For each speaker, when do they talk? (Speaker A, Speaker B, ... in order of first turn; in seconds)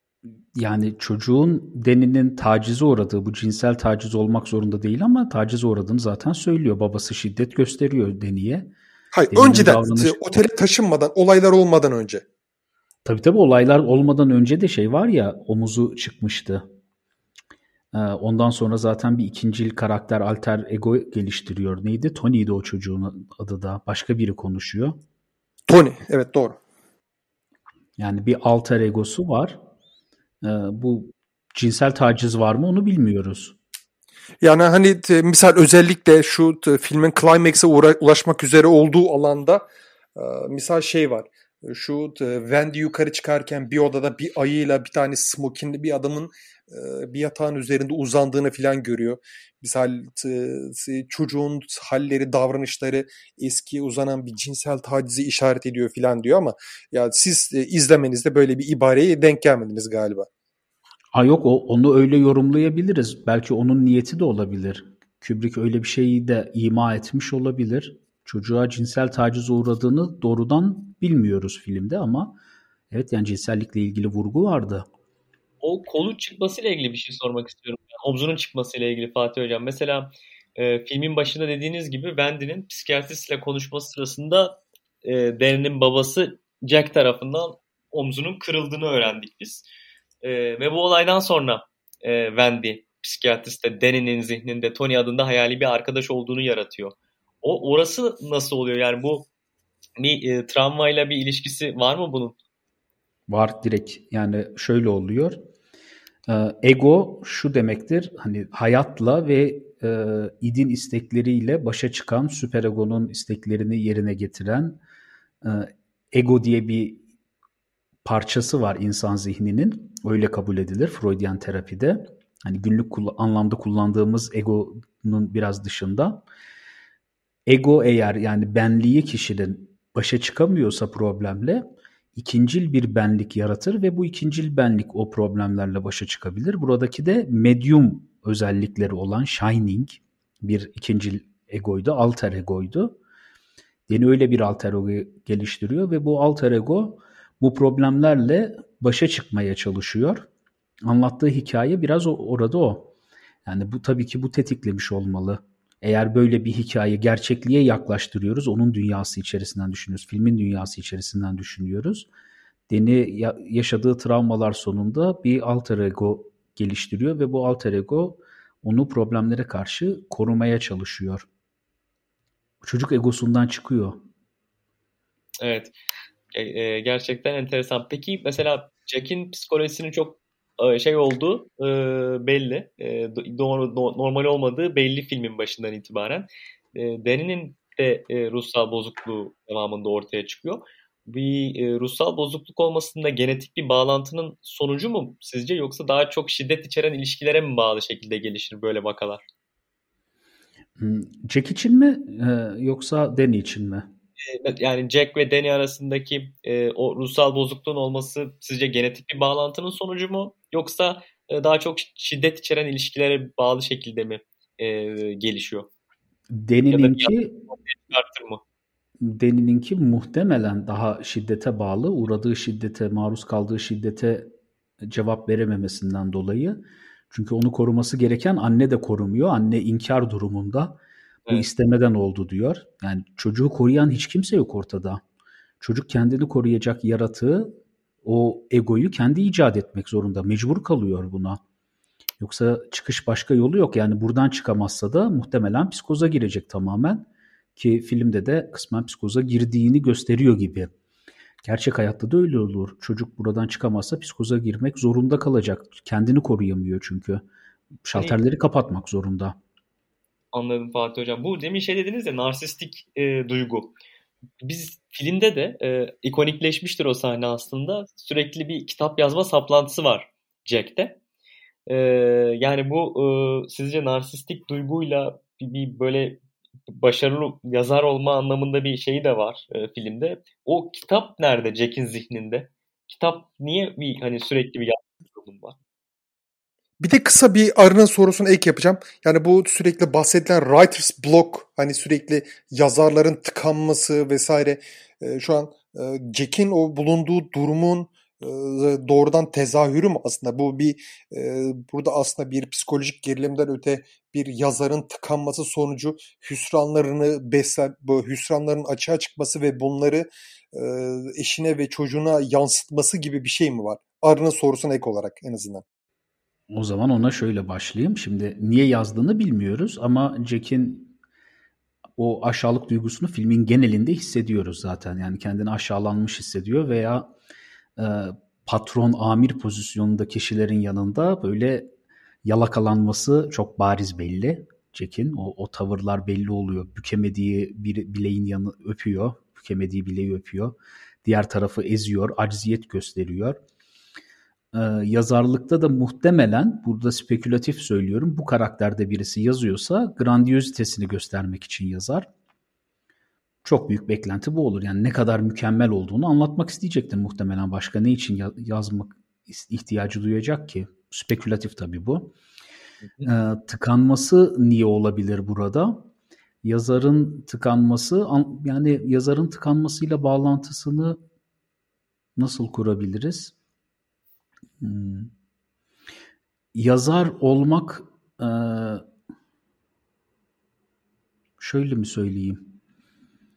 Speaker A: 0.6-8.7, 9.3-10.2, 13.0-16.6, 17.9-25.0, 28.0-29.6, 30.4-33.6, 61.1-72.4, 72.9-74.8, 103.3-105.4, 106.3-114.8, 115.4-117.0, 118.0-126.2, 127.5-143.0, 143.9-150.3, 150.8-152.9, 153.4-162.1, 162.7-171.3, 172.6-174.0, 200.8-203.9, 216.3-217.3, 219.0-226.6, 227.1-230.8, 231.3-235.0, 235.6-241.4, 242.2-250.7, 251.4-257.2, 257.8-259.4, 316.5-320.9, 321.9-327.1, 327.8-331.7, 332.2-343.4, 344.5-352.1, 353.4-362.1, 363.0-365.9, 366.4-371.0, 372.1-373.3, 374.6-375.1, 376.5-378.9, 381.4-382.4
Speaker B: 9.1-12.2, 25.7-26.6, 34.4-39.6, 40.1-60.3, 286.8-315.6
Speaker C: 75.6-89.7, 90.2-99.3, 100.0-102.3, 175.4-175.7, 176.3-199.2, 204.2-215.7, 216.7-218.4, 257.9-258.2, 260.3-263.7, 264.4-271.0, 271.7-285.6